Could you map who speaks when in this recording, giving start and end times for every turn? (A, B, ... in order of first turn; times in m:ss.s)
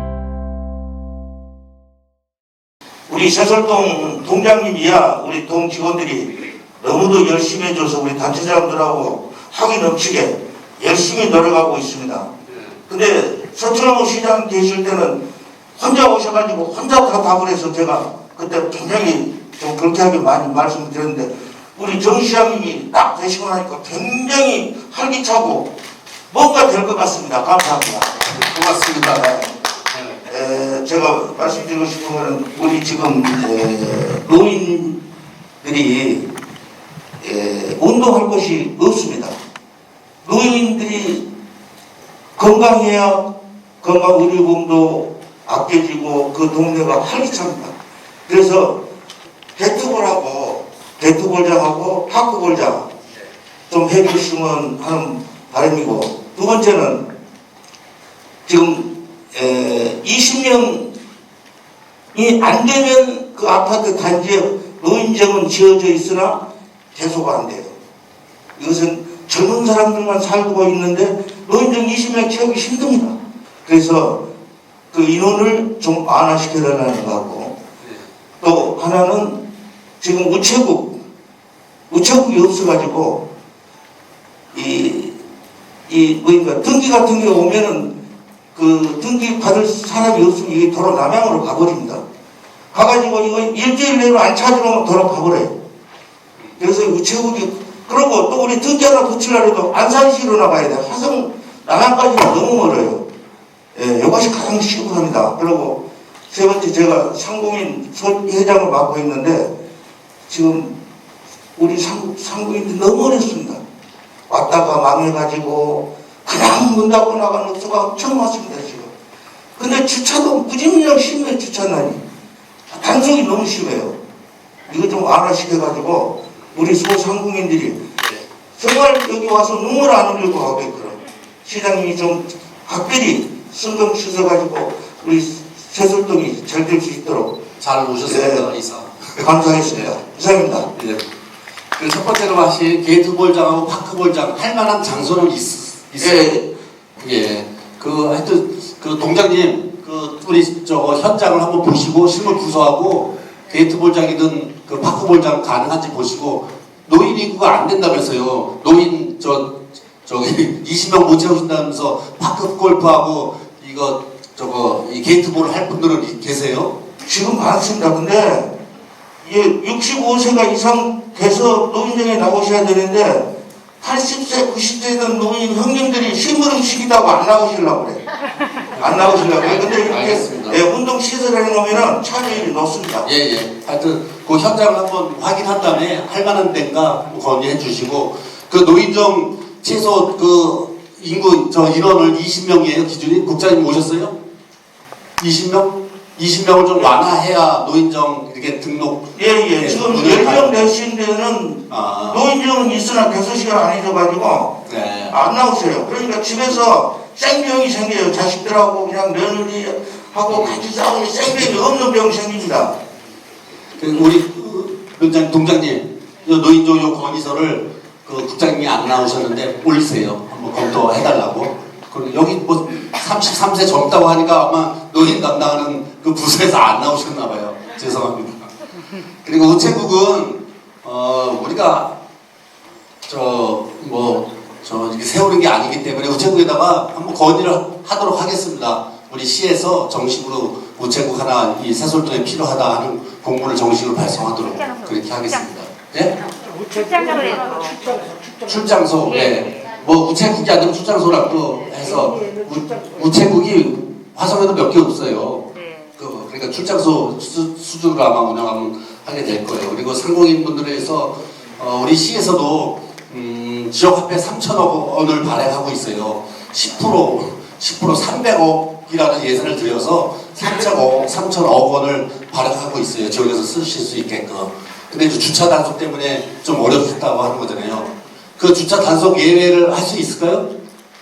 0:03.1-0:12.3 A
0:12.5-0:12.7 B
0:12.9-0:15.2 A
0:15.8-0:25.7 A
0:26.3-0:28.2 A
0:28.2-0:29.3 B
0:29.0-0:29.5 A
0:29.9-0:30.2 B
0:30.2-0:35.0 A
0:35.6-0:36.2 A
0:37.2-0:39.4 A
0:40.2-0:41.2 A
0:42.4-0:43.3 A
0:43.8-0:47.7 A
0:48.3-0:48.8 A
0:49.6-0:52.9 A
0:53.7-0:57.0 A
0:58.4-1:00.9 A
1:02.1-1:06.4 A
1:06.9-1:07.7 A
1:08.6-1:14.2 A
1:14.9-1:17.6 A
1:17.8-1:18.0 B
1:18.4-1:19.4 A
1:20.0-1:20.9 A
1:21.9-1:23.2 A
1:24.5-1:25.2 A
1:25.9-1:27.9 A
1:28.5-1:32.0 A
1:32.7-1:35.5 A
1:36.6-1:43.0 A
1:43.7-1:49.5 A
1:50.3-1:50.7 A
1:51.6-1:53.6 A
1:54.3-1:58.9 A
1:59.6-2:02.0 A
2:02.7-2:04.0 A
2:04.7-2:07.8 A
2:08.6-2:17.4 A
2:17.6-2:19.9 B
2:18.0-2:18.4 A
2:19.2-2:20.7 A
2:20.7-2:21.0 B
2:21.8-2:26.2 B
2:26.0-2:26.4 A
2:27.0-2:46.7 B
2:47.0-2:48.5 A
2:49.2-2:53.3 A
2:53.8-2:58.0 A
2:58.7-3:00.6 B
2:58.8-3:03.1 A
3:03.0-3:14.1 B
3:15.2-3:20.7 B
3:19.2-3:24.5 A
3:21.7-3:22.2 B
3:24.6-3:25.1 B
3:25.1-3:32.8 A
3:30.3-3:30.7 B
3:33.8-3:48.5 B
3:49.2-3:51.9 B
3:53.0-4:06.1 B
4:04.6-4:05.4 C
4:06.7-4:07.8 C
4:08.4-4:40.5 B
4:09.0-4:09.6 C
4:15.5-4:15.9 C